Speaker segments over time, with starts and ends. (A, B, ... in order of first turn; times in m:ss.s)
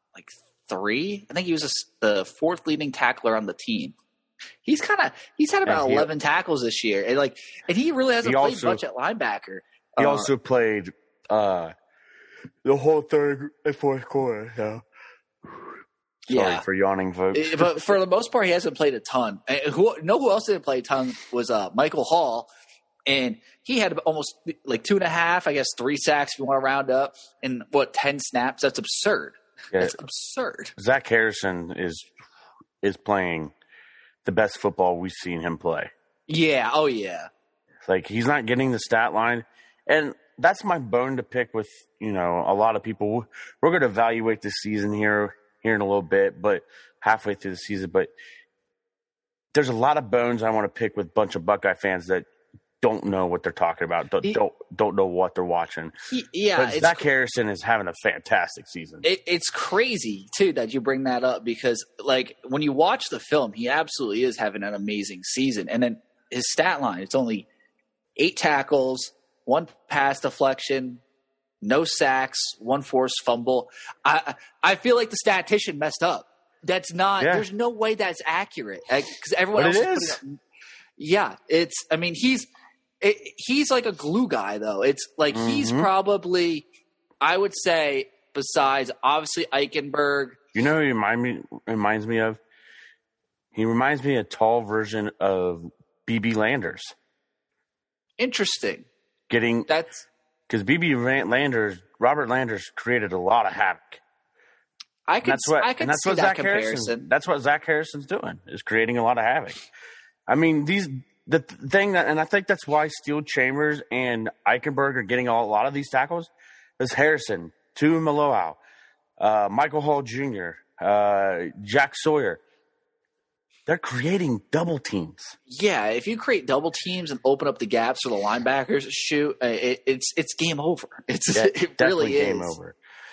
0:00.1-0:04.0 A
0:04.6-0:10.3 A
0:05.6-0:06.1 B
0:08.2-0:08.8 B
0:10.0-0:11.7 B
0:12.6-0:14.8 B
0:15.5-0:15.7 B
0:16.3-0:17.9 B
0:16.3-0:16.6 A
0:17.3-0:22.5 A
0:23.1-0:30.7 A
0:30.8-0:32.1 B
0:32.8-0:33.5 B
0:34.2-0:35.9 B
0:36.3-0:37.3 A
0:37.8-0:48.1 B
0:49.5-0:52.3 B
0:52.8-0:55.9 B
0:56.1-0:57.0 A
0:56.6-0:59.0 B
0:59.0-1:07.5 A
1:08.2-1:11.0 A
1:11.6-1:20.4 A
1:17.2-1:17.5 B
1:19.6-1:20.2 B
1:21.0-1:22.5 A
1:23.0-1:26.7 A
1:25.3-1:25.9 B
1:27.2-1:30.4 A
1:30.5-1:32.4 B
1:33.5-1:36.9 B
1:38.2-1:38.9 A
1:39.3-1:39.7 B
1:39.7-1:40.1 A
1:40.5-1:44.0 B
1:45.1-1:47.0 A
1:45.2-1:49.6 B
1:50.3-1:58.6 B
1:59.2-2:02.4 B
2:03.7-2:05.4 B
2:05.5-2:12.5 A
2:11.3-2:12.8 B